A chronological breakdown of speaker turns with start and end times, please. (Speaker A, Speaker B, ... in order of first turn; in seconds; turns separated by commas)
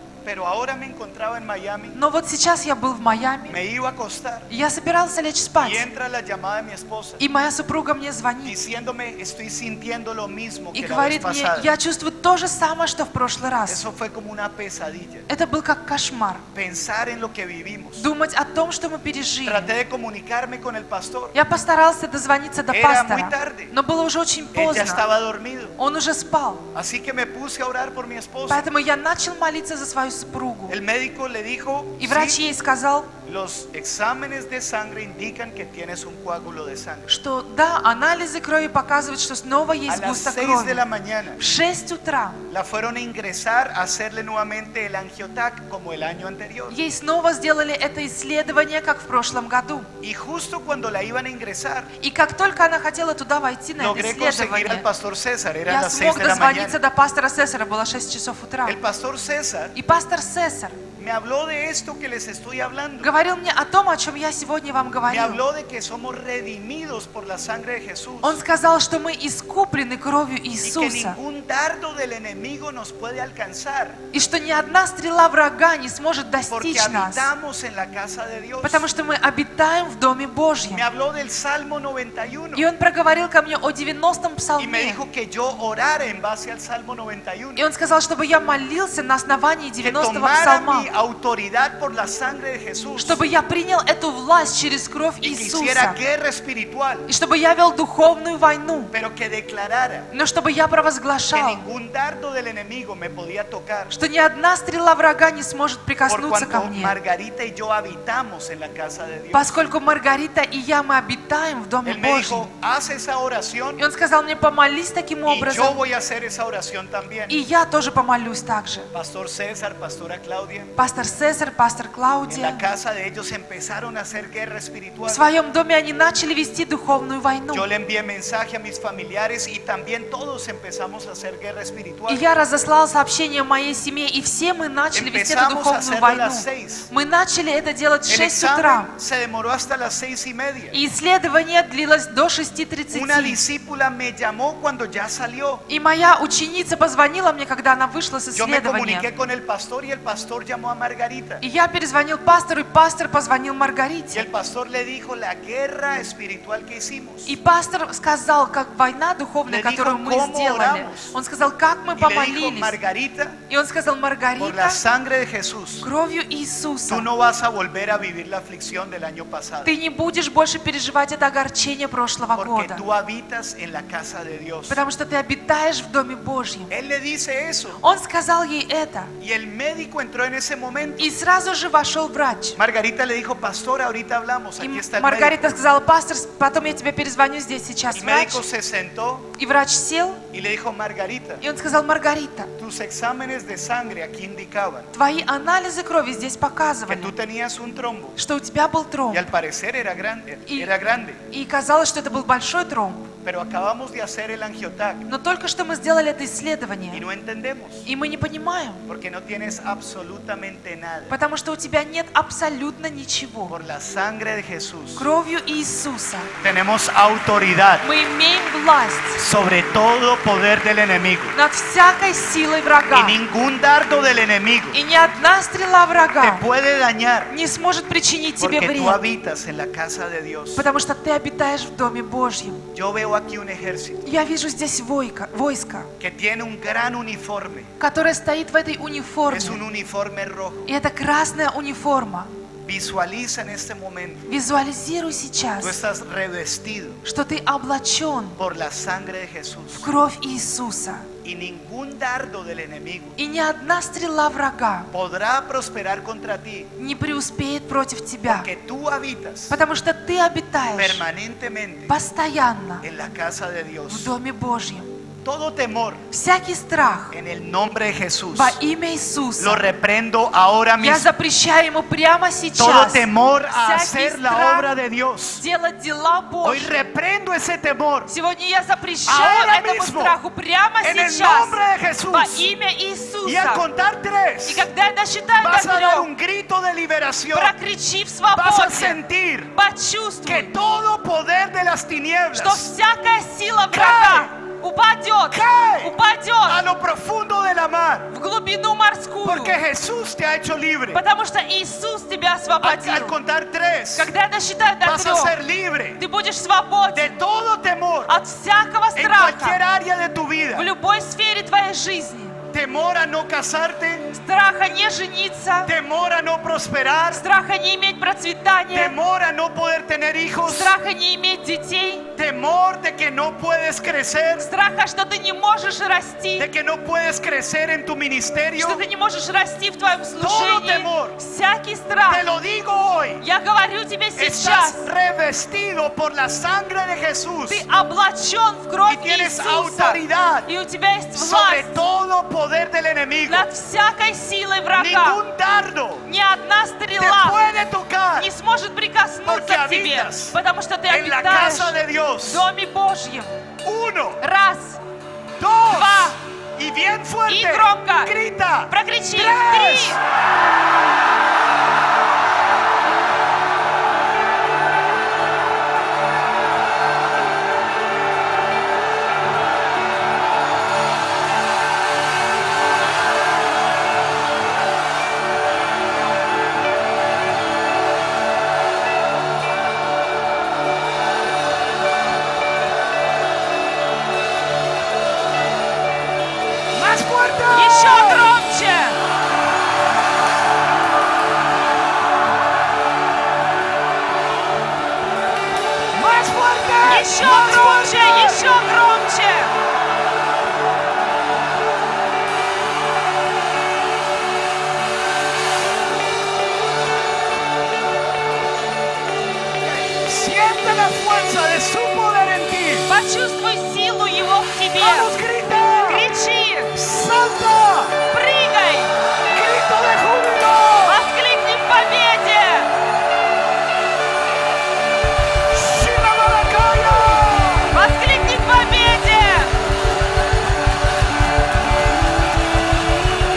Speaker A: 0.2-2.0, Speaker B: 1.9-3.6, Speaker A: 3.5-4.5, Speaker B: 4.5-5.8, Speaker A: 5.6-7.2, Speaker B: 7.2-8.6, Speaker A: 8.4-11.7, Speaker B: 10.7-13.8, Speaker A: 13.7-15.3, Speaker B: 15.3-16.4, Speaker A: 16.5-18.0, Speaker B: 18.0-19.7, Speaker A: 19.4-21.3, Speaker B: 21.3-25.1, Speaker A: 22.7-23.7, Speaker A: 24.5-25.8, Speaker B: 25.8-26.7, Speaker A: 26.7-28.7, Speaker B: 28.5-30.8, Speaker A: 30.7-32.4, Speaker B: 32.0-33.1, Speaker A: 33.2-37.1, Speaker B: 37.1-40.8, Speaker A: 39.9-41.4, Speaker B: 41.4-42.4, Speaker A: 42.5-46.8, Speaker B: 46.7-49.9, Speaker A: 50.0-51.9, Speaker B: 52.0-54.9, Speaker A: 53.8-56.8, Speaker B: 55.7-58.8, Speaker A: 58.6-59.7, Speaker B: 59.7-60.8, Speaker A: 61.0-63.1, Speaker B: 63.0-65.4, Speaker A: 65.1-68.4, Speaker B: 68.2-71.2, Speaker A: 70.6-74.0, Speaker B: 74.1-77.3, Speaker A: 76.5-78.9, Speaker B: 78.6-80.8, Speaker A: 80.7-82.7, Speaker B: 82.5-85.0, Speaker A: 84.6-87.7, Speaker B: 87.6-90.9, Speaker A: 89.8-93.2, Speaker B: 93.0-96.0, Speaker A: 95.2-97.1, Speaker B: 97.1-98.9, Speaker A: 98.9-100.1, Speaker B: 100.1-101.6, Speaker A: 101.3-103.9, Speaker B: 103.9-107.0, Speaker A: 106.1-109.7, Speaker B: 109.3-112.5, Speaker A: 111.8-113.8, Speaker B: 113.8-115.8, Speaker A: 115.3-117.3, Speaker B: 117.3-118.9, Speaker A: 118.9-120.7, Speaker B: 120.8-122.6, Speaker A: 122.3-125.3, Speaker B: 125.1-127.7, Speaker A: 127.5-132.2, Speaker B: 132.1-138.9, Speaker A: 134.9-136.9, Speaker A: 138.1-140.8, Speaker B: 140.7-143.4, Speaker A: 142.9-145.7, Speaker B: 145.7-149.1, Speaker A: 148.3-151.4, Speaker B: 151.4-154.3, Speaker A: 154.1-157.3, Speaker B: 157.3-162.8, Speaker A: 159.5-161.1, Speaker A: 161.9-163.4, Speaker B: 163.5-164.8, Speaker A: 164.4-165.9, Speaker B: 165.8-167.1, Speaker A: 166.9-169.7, Speaker B: 169.7-172.8, Speaker A: 172.3-174.8, Speaker B: 174.7-176.7, Speaker A: 176.7-177.8, Speaker B: 177.8-179.1, Speaker A: 179.2-181.1, Speaker B: 181.0-182.6, Speaker A: 182.6-185.4, Speaker B: 184.6-188.4, Speaker A: 187.9-189.3, Speaker B: 189.4-190.2, Speaker A: 190.3-191.4, Speaker B: 191.4-192.5, Speaker A: 192.6-194.9, Speaker B: 194.9-197.1, Speaker A: 196.9-198.2, Speaker B: 198.2-199.2, Speaker A: 199.1-201.2, Speaker B: 200.5-200.7, Speaker B: 201.2-203.1, Speaker A: 203.2-205.1, Speaker B: 205.1-207.0, Speaker A: 206.9-207.9, Speaker B: 207.8-208.8, Speaker A: 208.9-211.2, Speaker B: 211.1-213.6, Speaker A: 213.5-215.1, Speaker B: 215.0-216.3, Speaker A: 216.4-217.9, Speaker B: 217.8-219.2, Speaker A: 219.2-221.4, Speaker B: 221.3-223.2, Speaker A: 222.9-224.8, Speaker B: 224.7-226.4, Speaker A: 226.2-227.3, Speaker B: 227.3-229.0, Speaker A: 228.4-230.7, Speaker B: 230.6-232.7, Speaker A: 232.7-234.1, Speaker B: 234.0-235.9, Speaker A: 236.0-237.7, Speaker B: 237.8-239.6, Speaker A: 239.3-240.7, Speaker B: 240.7-242.3, Speaker A: 242.6-244.3, Speaker B: 244.3-245.8, Speaker A: 245.6-247.0, Speaker B: 247.0-248.4, Speaker A: 248.4-249.9, Speaker B: 249.8-251.1, Speaker A: 251.2-253.2, Speaker B: 253.2-254.9, Speaker A: 254.9-256.7, Speaker B: 256.8-258.5, Speaker A: 258.3-259.6, Speaker B: 259.5-261.0, Speaker A: 260.7-262.0, Speaker B: 261.9-262.9, Speaker A: 262.8-264.1, Speaker B: 263.9-264.9, Speaker A: 265.2-266.1, Speaker B: 266.1-267.1, Speaker A: 267.1-268.6, Speaker B: 268.3-269.6, Speaker A: 269.4-271.1, Speaker B: 270.8-274.7, Speaker A: 272.6-275.4, Speaker B: 275.4-276.8, Speaker A: 276.4-278.1, Speaker B: 278.1-283.6, Speaker A: 279.1-280.2, Speaker A: 280.8-282.5, Speaker A: 283.2-284.7, Speaker B: 284.5-286.1, Speaker A: 285.4-287.6, Speaker B: 287.3-289.0, Speaker A: 288.3-289.5, Speaker B: 289.5-290.5, Speaker A: 290.2-292.7, Speaker B: 292.3-296.6, Speaker A: 293.7-294.3, Speaker A: 295.3-298.1, Speaker B: 298.1-299.6, Speaker A: 299.2-301.0, Speaker B: 300.9-303.2, Speaker A: 302.6-304.1, Speaker B: 304.0-305.4, Speaker A: 304.8-306.0, Speaker B: 306.0-307.2, Speaker A: 306.9-308.1, Speaker B: 308.1-309.6, Speaker A: 309.0-310.7, Speaker B: 310.5-312.4, Speaker A: 312.5-314.1, Speaker B: 314.1-315.7, Speaker A: 315.6-317.2, Speaker B: 317.1-318.9, Speaker A: 318.7-320.8, Speaker B: 320.4-322.1, Speaker A: 322.1-324.5, Speaker B: 324.4-326.5, Speaker A: 326.4-328.8, Speaker B: 328.6-332.2, Speaker A: 330.2-331.2, Speaker A: 332.1-333.2, Speaker B: 333.2-334.9, Speaker A: 334.2-337.6, Speaker B: 337.5-341.7, Speaker A: 338.9-340.5, Speaker A: 341.1-343.5, Speaker B: 343.3-345.2, Speaker A: 344.7-346.1, Speaker B: 346.1-347.4, Speaker A: 347.0-348.3, Speaker B: 348.2-353.3, Speaker A: 349.2-352.5, Speaker A: 353.6-354.2, Speaker B: 354.2-354.8, Speaker A: 355.4-360.0, Speaker B: 355.7-356.2, Speaker B: 357.3-358.1, Speaker B: 358.7-360.0, Speaker A: 386.7-388.4, Speaker B: 387.5-389.0, Speaker A: 395.9-398.6, Speaker B: 396.8-399.5, Speaker A: 409.6-412.9, Speaker B: 412.9-415.1, Speaker A: 414.8-416.1, Speaker B: 415.8-416.8, Speaker A: 416.8-418.0, Speaker B: 418.1-418.9, Speaker A: 419.3-421.0, Speaker B: 420.8-422.7, Speaker A: 425.5-427.7, Speaker B: 427.7-429.5